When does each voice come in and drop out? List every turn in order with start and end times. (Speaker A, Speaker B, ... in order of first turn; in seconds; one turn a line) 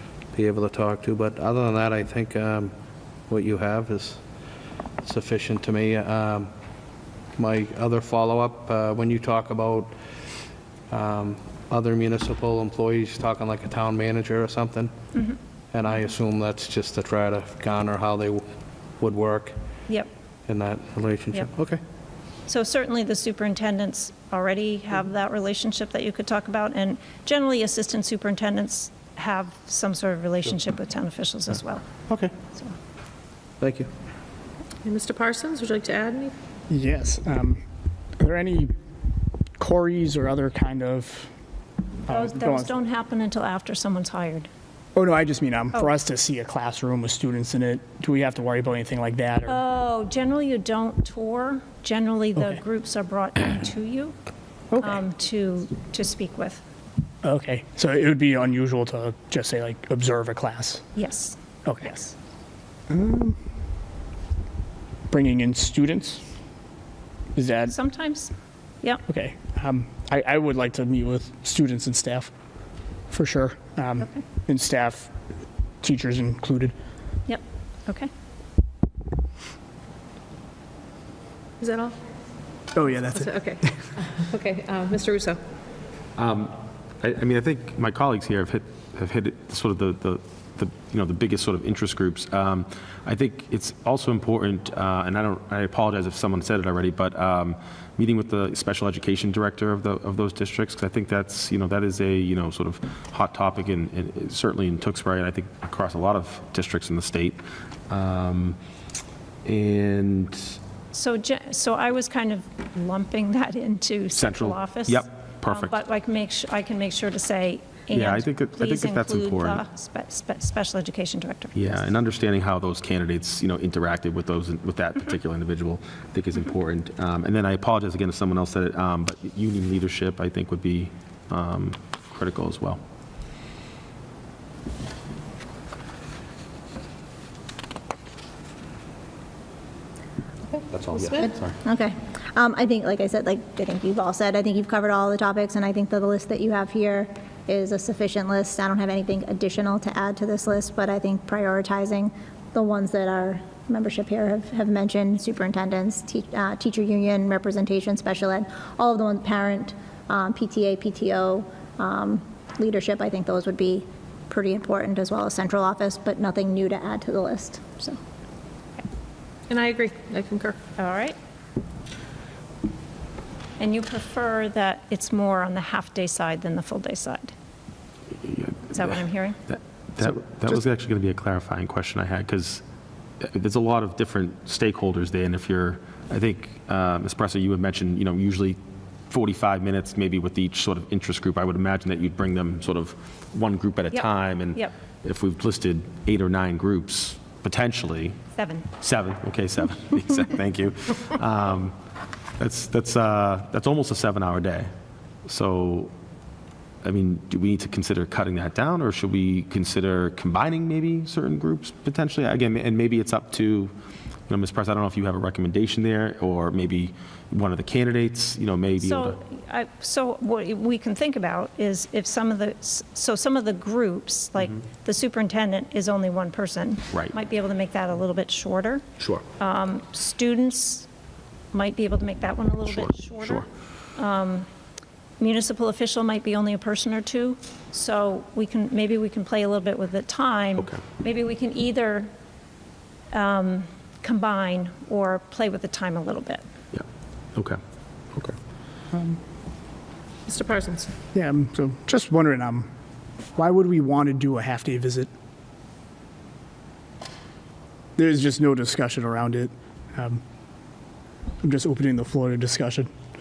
Speaker A: 0.3-2.7
Speaker A: 3.3-4.2
Speaker A: 5.0-6.5
Speaker A: 7.4-9.9
Speaker A: 10.9-14.9
Speaker A: 15.7-18.4
Speaker A: 19.0-19.6
Speaker A: 20.5-21.8
Speaker B: 22.5-31.9
Speaker A: 33.6-33.9
Speaker C: 34.8-36.3
Speaker D: 36.7-37.6
Speaker D: 38.2-38.7
Speaker D: 39.6-41.3
Speaker D: 42.1-42.7
Speaker B: 42.1-44.5
Speaker D: 44.9-49.6
Speaker B: 49.5-54.1
Speaker B: 54.8-56.6
Speaker D: 57.2-60.8
Speaker B: 61.0-62.1
Speaker D: 61.6-61.9
Speaker D: 62.9-63.4
Speaker D: 65.1-66.2
Speaker D: 67.3-67.7
Speaker B: 67.7-69.0
Speaker D: 69.1-72.3
Speaker D: 73.1-75.1
Speaker D: 75.8-76.7
Speaker B: 77.3-78.1
Speaker C: 81.6-81.9
Speaker D: 82.7-83.7
Speaker C: 83.1-85.4
Speaker E: 86.2-108.6
Speaker E: 109.4-110.6
Speaker B: 110.9-121.6
Speaker E: 114.1-115.8
Speaker E: 117.9-119.6
Speaker E: 121.5-132.8
Speaker C: 140.5-141.2
Speaker E: 140.7-141.5
Speaker F: 141.6-168.0
Speaker C: 169.5-170.6
Speaker B: 170.8-171.2
Speaker B: 173.6-177.3
Speaker E: 178.2-178.8
Speaker B: 178.7-179.4
Speaker E: 179.5-182.6
Speaker E: 183.2-188.6
Speaker E: 189.1-198.2
Speaker B: 193.9-194.7
Speaker B: 198.3-198.7
Speaker E: 198.8-201.7
Speaker E: 202.4-204.7
Speaker E: 205.3-205.9
Speaker E: 206.8-213.7
Speaker E: 214.3-219.2
Speaker B: 218.8-228.8
Speaker B: 229.4-230.9
Speaker B: 231.5-234.5
Speaker E: 232.7-233.4
Speaker B: 235.2-242.1
Speaker B: 243.1-246.4
Speaker C: 250.3-250.9
Speaker D: 251.1-252.7
Speaker D: 253.3-255.1
Speaker D: 258.0-260.2
Speaker D: 261.4-262.9